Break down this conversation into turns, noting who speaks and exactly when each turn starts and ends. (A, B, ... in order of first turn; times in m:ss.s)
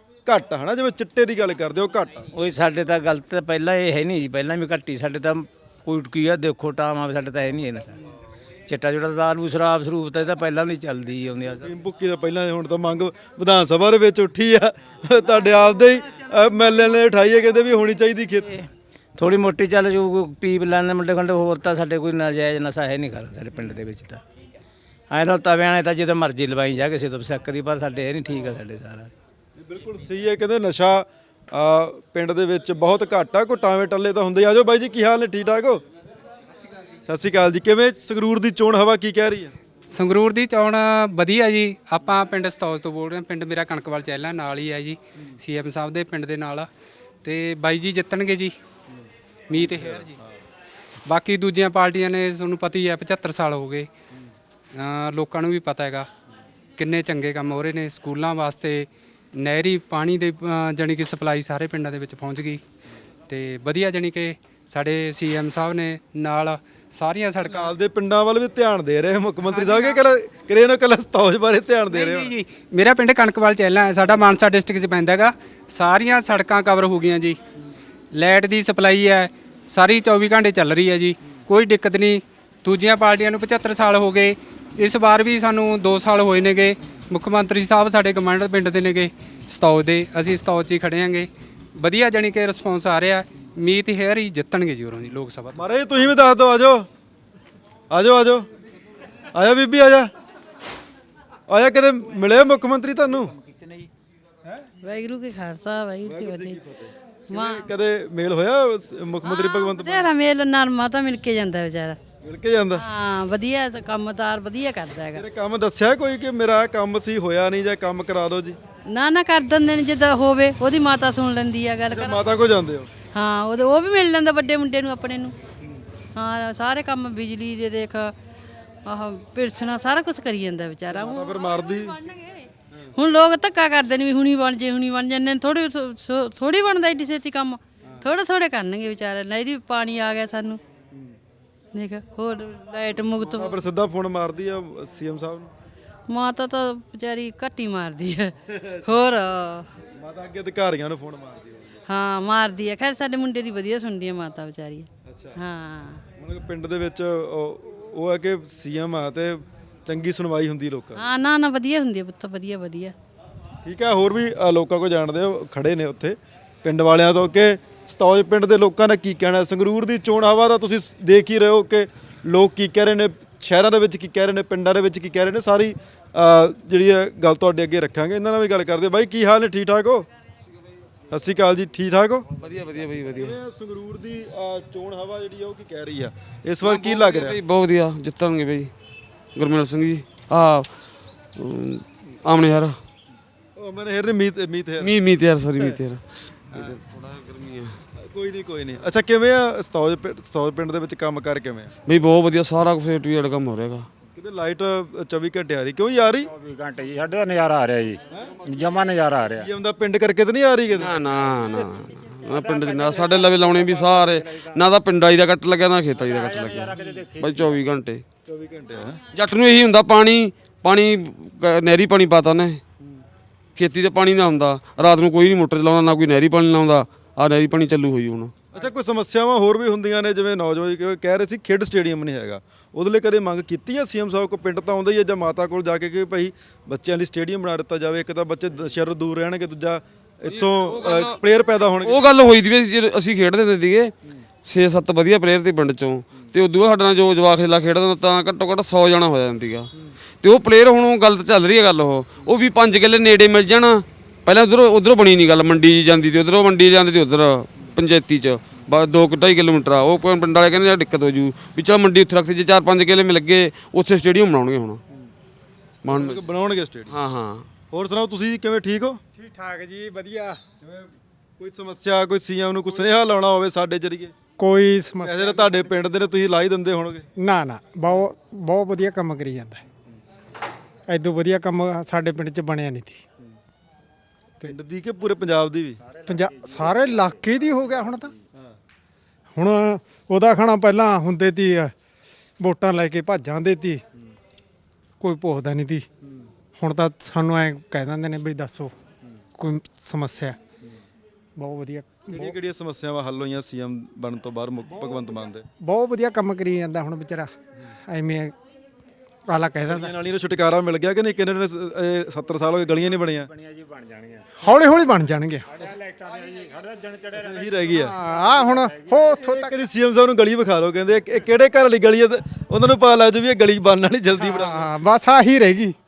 0:00.2-0:02.3 A
0:02.3-0:08.0 B
0:08.7-0:11.7 B
0:11.6-0:18.5 A
0:19.2-0:24.2 B
0:25.1-0:29.1 B
0:29.6-0:35.8 A
0:37.1-0:39.5 A
0:39.9-0:46.7 C
0:47.2-0:48.5 C
0:49.5-0:50.1 C
0:51.1-0:53.9 C
0:54.7-0:56.1 C
0:56.8-1:02.6 C
1:03.3-1:07.7 C
1:07.4-1:12.3 A
1:09.5-1:10.0 C
1:11.9-1:17.4 C
1:18.1-1:35.6 C
1:35.5-1:36.9 A
1:37.9-1:38.5 A
1:39.3-1:40.1 A
1:41.5-1:43.3 A
1:44.8-1:46.6 D
1:46.0-1:50.1 A
1:47.3-1:47.7 D
1:49.2-1:52.0 D
1:52.2-1:52.8 A
1:52.8-1:55.2 D
1:55.1-1:58.6 A
1:58.9-2:02.2 D
2:01.9-2:02.9 A
2:03.1-2:05.3 D
2:06.1-2:08.1 D
2:08.8-2:20.6 D
2:10.9-2:12.0 A
2:20.9-2:21.2 A
2:21.7-2:23.6 D
2:23.2-2:25.5 A
2:26.1-2:29.7 D
2:28.5-2:28.8 A
2:30.0-2:31.8 A
2:31.9-2:36.0 D
2:35.0-2:35.4 A
2:36.2-2:41.0 A
2:41.0-2:42.9 D
2:43.6-3:00.1 A
3:01.1-3:02.3 A
3:02.4-3:03.3 E
3:03.0-3:07.4 A
3:06.6-3:08.7 E
3:09.4-3:12.8 E
3:13.6-3:14.9 A
3:14.8-3:17.8 E
3:18.0-3:21.7 A
3:21.9-3:23.9 E
3:24.1-3:26.3 A
3:26.3-3:29.5 F
3:28.1-3:28.4 A
3:29.3-3:31.0 A
3:30.8-3:38.0 E
3:31.1-3:31.7 F
3:32.2-3:34.6 F
3:36.0-3:37.6 F
3:38.2-3:39.0 A
3:39.1-3:42.6 E
3:43.6-3:48.3 E
3:48.5-4:02.0 A
4:00.2-4:01.2 E
4:01.8-4:03.9 E
4:04.4-4:09.7 E
4:10.2-4:24.8 E
4:25.8-4:26.2 E
4:25.8-4:26.9 A
4:26.9-4:27.5 E
4:27.7-4:29.0 A
4:29.1-4:30.4 G
4:30.6-4:34.1 A
4:34.4-4:35.6 G
4:35.0-4:37.1 A
4:37.2-4:39.6 G
4:40.9-4:43.0 G
4:44.4-4:45.8 A
4:45.9-4:48.0 F
4:46.1-4:48.1 G
4:49.3-4:51.7 G
4:52.4-4:53.8 G
4:55.0-4:55.9 G
4:56.6-4:58.7 G
4:59.4-5:00.4 G
5:01.4-5:02.4 G
5:02.1-5:05.4 A
5:05.6-5:07.3 G
5:07.8-5:08.3 G
5:09.3-5:10.0 G
5:09.6-5:13.3 A
5:13.0-5:14.5 F
5:14.4-5:15.6 G
5:15.5-5:19.2 F
5:17.1-5:18.0 A
5:17.7-5:19.5 G
5:19.1-5:24.7 A
5:24.1-5:25.7 G